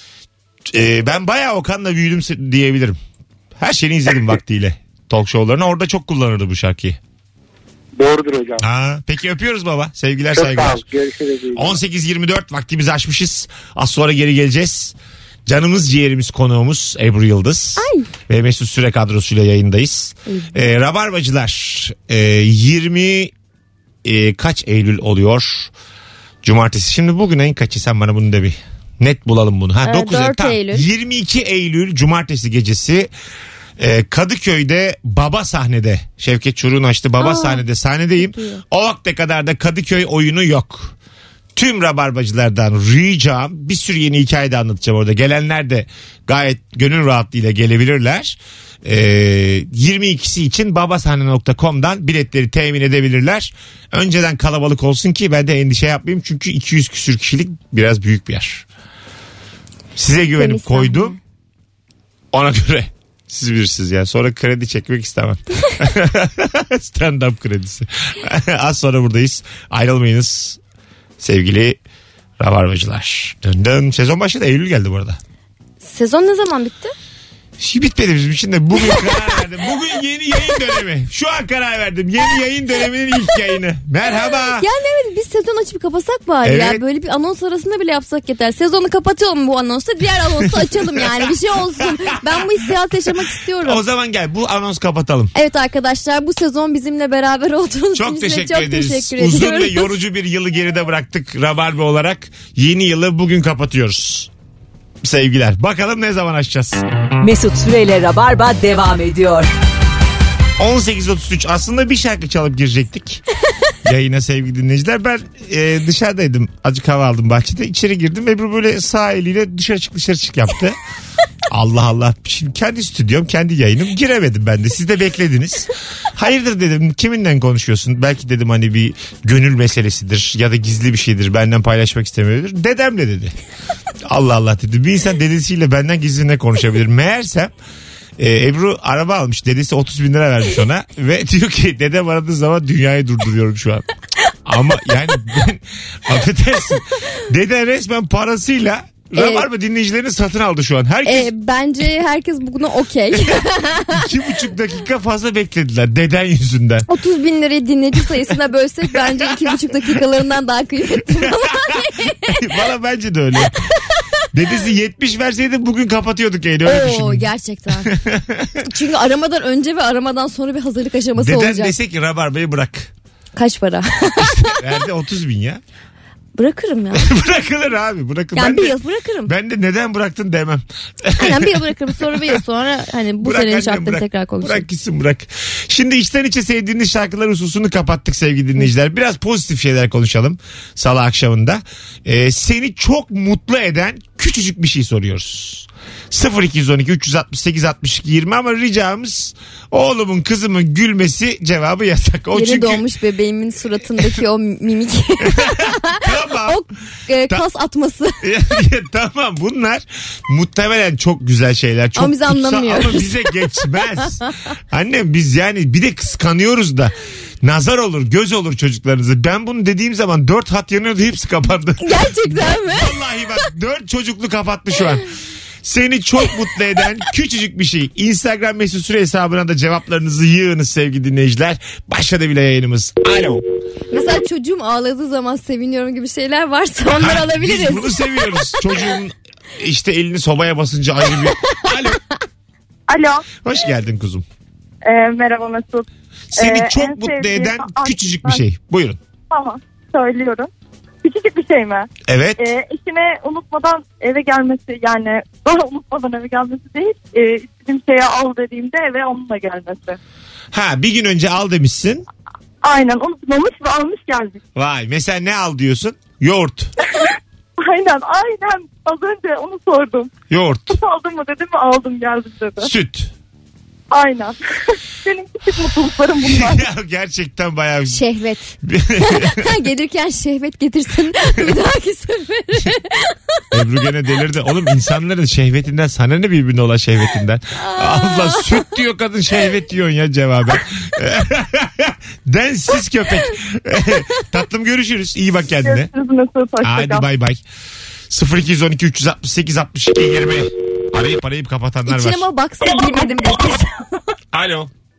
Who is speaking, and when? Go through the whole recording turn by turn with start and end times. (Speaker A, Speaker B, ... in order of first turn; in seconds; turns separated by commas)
Speaker A: 0.7-3.0, Speaker A: 3.6-7.0, Speaker B: 7.9-8.6, Speaker A: 8.6-10.8, Speaker B: 10.3-11.8, Speaker A: 11.5-14.9, Speaker A: 15.4-23.3, Speaker C: 17.8-18.1, Speaker C: 20.3-20.6, Speaker A: 24.0-25.7, Speaker A: 26.4-33.1, Speaker C: 29.8-30.9, Speaker A: 33.8-40.9, Speaker C: 37.2-37.6, Speaker C: 38.2-38.6, Speaker A: 41.5-58.6, Speaker A: 60.0-61.2, Speaker C: 60.4-61.2, Speaker A: 62.3-70.6, Speaker A: 71.2-71.8, Speaker A: 72.4-75.2, Speaker C: 75.8-76.9, Speaker A: 77.6-84.7, Speaker C: 84.6-93.8, Speaker A: 86.4-86.8, Speaker A: 90.5-92.5, Speaker A: 93.6-95.3, Speaker C: 95.3-99.9, Speaker A: 97.9-104.3, Speaker A: 105.0-106.8, Speaker D: 107.2-109.5, Speaker A: 110.6-113.2, Speaker A: 113.8-120.8, Speaker A: 121.5-133.3, Speaker A: 134.0-137.5, Speaker A: 138.2-143.9, Speaker A: 144.4-151.3, Speaker C: 149.2-149.5, Speaker C: 151.0-154.1, Speaker A: 153.9-156.9, Speaker C: 156.9-162.4, Speaker A: 158.9-159.6, Speaker A: 161.2-163.6, Speaker A: 164.3-167.3, Speaker C: 166.6-167.9, Speaker A: 167.8-168.6, Speaker C: 168.6-171.8, Speaker A: 171.2-172.9, Speaker C: 173.3-174.6, Speaker A: 174.2-175.6, Speaker C: 176.3-177.1, Speaker A: 176.9-178.7, Speaker C: 178.3-179.3, Speaker A: 179.2-182.4, Speaker C: 181.2-184.7, Speaker A: 183.2-202.8, Speaker C: 202.3-208.2, Speaker A: 205.2-206.6, Speaker A: 208.2-225.0, Speaker C: 211.9-213.3, Speaker C: 221.8-223.0, Speaker A: 225.6-233.4, Speaker C: 233.9-238.0, Speaker A: 236.9-242.0, Speaker E: 242.9-243.2, Speaker A: 243.4-244.2, Speaker E: 244.8-248.4, Speaker A: 246.3-249.0, Speaker E: 249.3-250.5, Speaker E: 251.0-260.0, Speaker A: 252.1-252.4, Speaker A: 260.5-262.1, Speaker E: 262.6-264.4, Speaker A: 264.6-266.7, Speaker E: 267.6-270.1, Speaker A: 270.3-270.8, Speaker E: 270.7-272.7, Speaker A: 272.6-273.1, Speaker E: 273.9-276.6, Speaker A: 276.2-278.0, Speaker C: 277.9-283.4, Speaker A: 278.6-279.5, Speaker A: 283.5-295.9, Speaker C: 287.6-288.6, Speaker E: 295.6-297.0, Speaker A: 296.6-297.4, Speaker A: 298.1-302.3, Speaker C: 301.9-303.8, Speaker A: 304.3-304.7